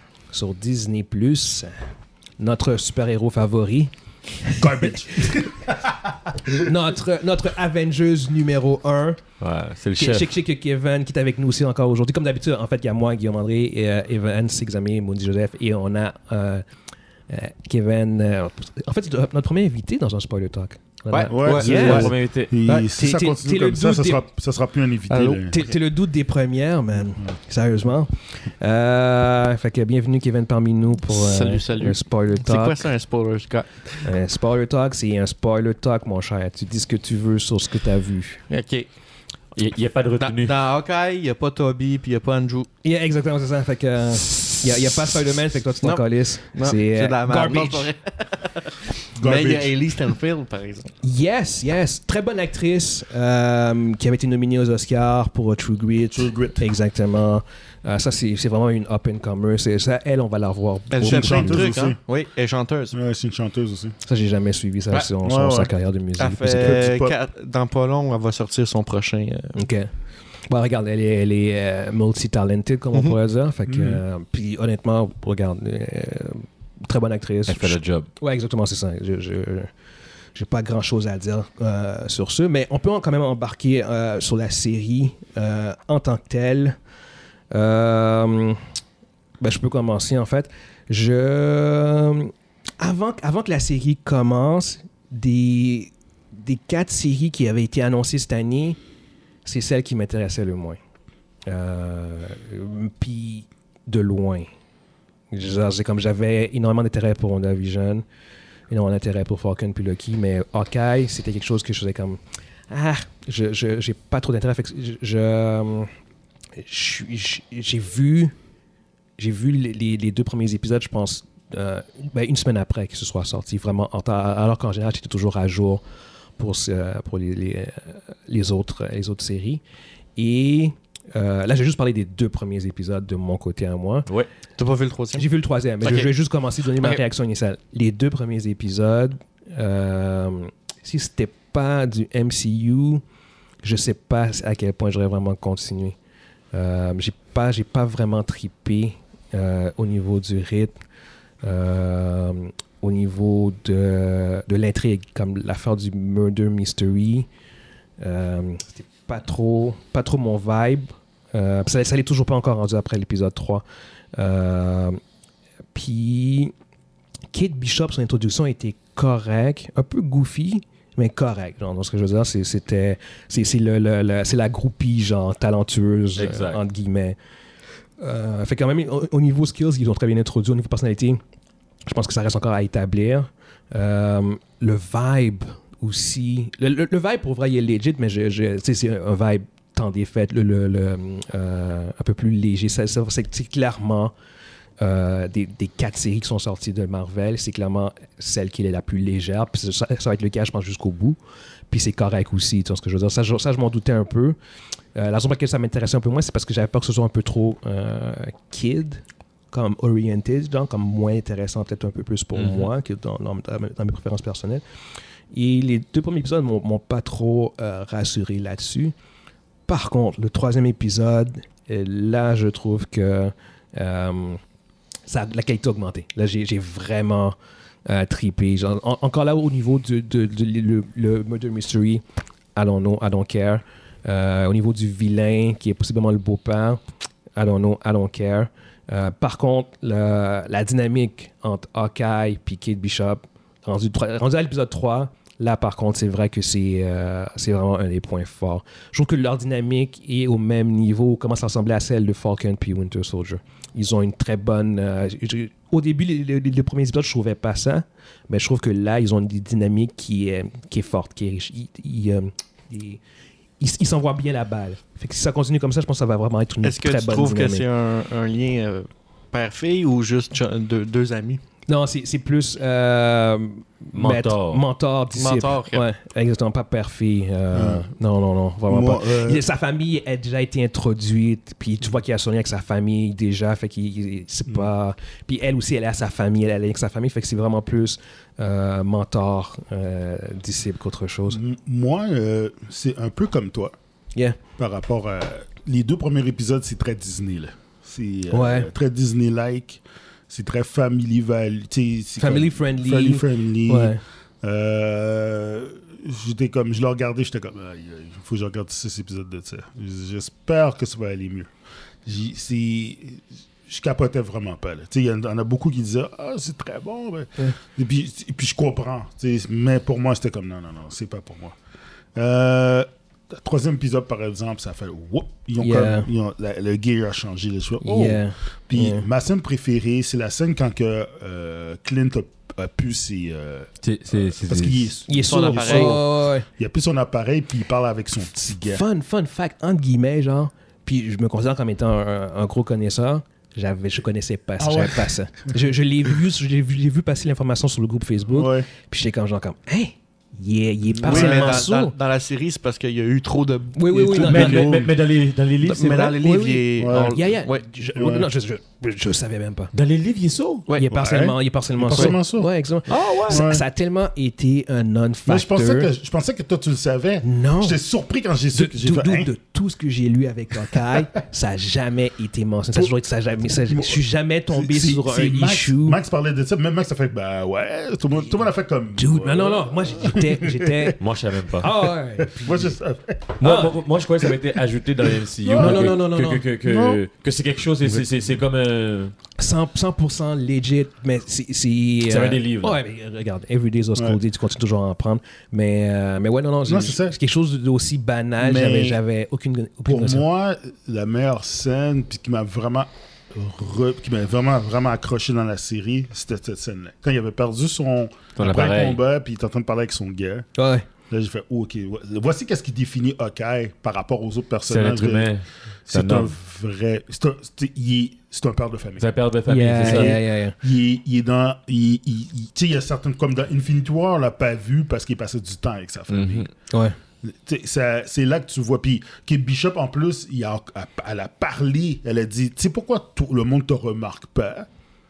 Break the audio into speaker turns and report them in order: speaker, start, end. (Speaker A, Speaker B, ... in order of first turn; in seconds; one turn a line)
Speaker A: 0.3-1.7
Speaker A: 2.4-5.4
Speaker B: 4.6-6.7
Speaker A: 6.5-9.2
Speaker C: 9.4-10.3
Speaker A: 9.9-16.6
Speaker A: 17.3-22.1
Speaker D: 21.1-22.1
Speaker B: 21.3-25.6
Speaker C: 21.6-22.5
Speaker A: 22.6-24.2
Speaker D: 25.1-25.6
Speaker A: 25.5-32.9
Speaker D: 31.1-34.0
Speaker A: 34.0-38.4
Speaker D: 38.5-38.9
Speaker C: 39.5-40.5
Speaker D: 40.2-42.7
Speaker A: 42.8-47.9
Speaker D: 45.8-50.9
Speaker B: 49.1-49.7
Speaker A: 51.0-61.7
Speaker B: 56.1-56.6
Speaker D: 60.9-63.0
Speaker B: 61.0-62.0
Speaker B: 62.9-63.9
Speaker A: 64.0-66.8
Speaker B: 65.2-65.7
Speaker D: 66.2-69.5
Speaker B: 66.5-67.1
Speaker A: 69.5-69.9
Speaker A: 70.5-79.7
Speaker B: 73.7-74.0
Speaker C: 77.5-78.1
Speaker A: 80.3-86.8
Speaker A: 87.5-88.6
Speaker A: 89.4-98.8
Speaker A: 99.4-100.8
Speaker A: 101.5-104.5
Speaker A: 105.3-108.0
Speaker A: 108.7-115.9
Speaker A: 116.6-118.3
Speaker A: 119.2-125.8
Speaker A: 126.4-129.6
Speaker A: 130.2-134.1
Speaker D: 134.6-135.2
Speaker A: 135.1-143.0
Speaker D: 135.8-136.1
Speaker A: 143.6-145.9
Speaker A: 146.5-150.8
Speaker A: 151.4-157.3
Speaker A: 158.0-163.6
Speaker A: 164.2-165.0
Speaker A: 165.7-166.5
Speaker A: 167.3-177.2
Speaker C: 176.2-176.6
Speaker A: 178.0-181.2
Speaker A: 181.9-194.1
Speaker A: 194.8-201.2
Speaker A: 201.7-204.4
Speaker A: 204.9-214.6
Speaker C: 212.4-212.7
Speaker A: 215.3-218.9
Speaker A: 219.7-224.4
Speaker A: 225.1-227.3
Speaker A: 227.8-232.0
Speaker A: 232.6-236.8
Speaker A: 237.4-263.0
Speaker A: 263.6-267.6
Speaker D: 266.6-271.4
Speaker A: 271.7-291.4
Speaker C: 273.9-274.6
Speaker D: 275.1-275.8
Speaker B: 277.5-277.8
Speaker B: 278.7-279.4
Speaker B: 291.3-293.7
Speaker B: 294.6-311.5
Speaker A: 298.3-298.7
Speaker A: 302.2-304.0
Speaker B: 312.1-321.6
Speaker B: 322.1-336.0
Speaker A: 325.6-326.1
Speaker A: 327.8-329.1
Speaker C: 333.8-334.9
Speaker A: 335.1-336.5
Speaker D: 335.3-336.0
Speaker B: 336.6-338.8
Speaker A: 338.7-351.9
Speaker B: 344.6-345.1
Speaker B: 348.3-348.7
Speaker B: 350.9-351.6
Speaker D: 351.0-354.5
Speaker A: 353.7-354.7
Speaker B: 353.9-354.9
Speaker C: 354.1-356.2
Speaker D: 355.6-357.6
Speaker A: 356.2-359.7
Speaker B: 356.8-357.2
Speaker B: 357.9-358.3
Speaker C: 359.7-360.6
Speaker A: 360.7-365.9
Speaker B: 360.9-362.5
Speaker D: 362.9-363.4
Speaker B: 363.3-363.6
Speaker B: 365.2-369.3
Speaker A: 367.2-367.8
Speaker A: 368.5-376.0
Speaker B: 373.5-380.9
Speaker A: 378.9-381.0
Speaker C: 381.0-381.7
Speaker A: 381.6-382.7
Speaker B: 382.2-383.3
Speaker C: 383.4-389.1
Speaker A: 383.4-383.7
Speaker B: 384.2-386.0
Speaker A: 385.5-386.4
Speaker B: 386.6-387.0
Speaker B: 387.8-388.1
Speaker A: 389.4-400.2
Speaker C: 392.1-392.8
Speaker B: 396.6-397.1
Speaker B: 398.4-399.0
Speaker B: 399.9-410.5
Speaker C: 408.4-409.0
Speaker A: 410.6-410.9
Speaker B: 411.1-415.3
Speaker C: 414.7-416.3
Speaker B: 415.9-419.2
Speaker C: 419.0-420.2
Speaker A: 419.4-420.5
Speaker B: 419.8-426.5
Speaker C: 426.1-426.5
Speaker A: 426.7-426.9
Speaker B: 427.2-434.7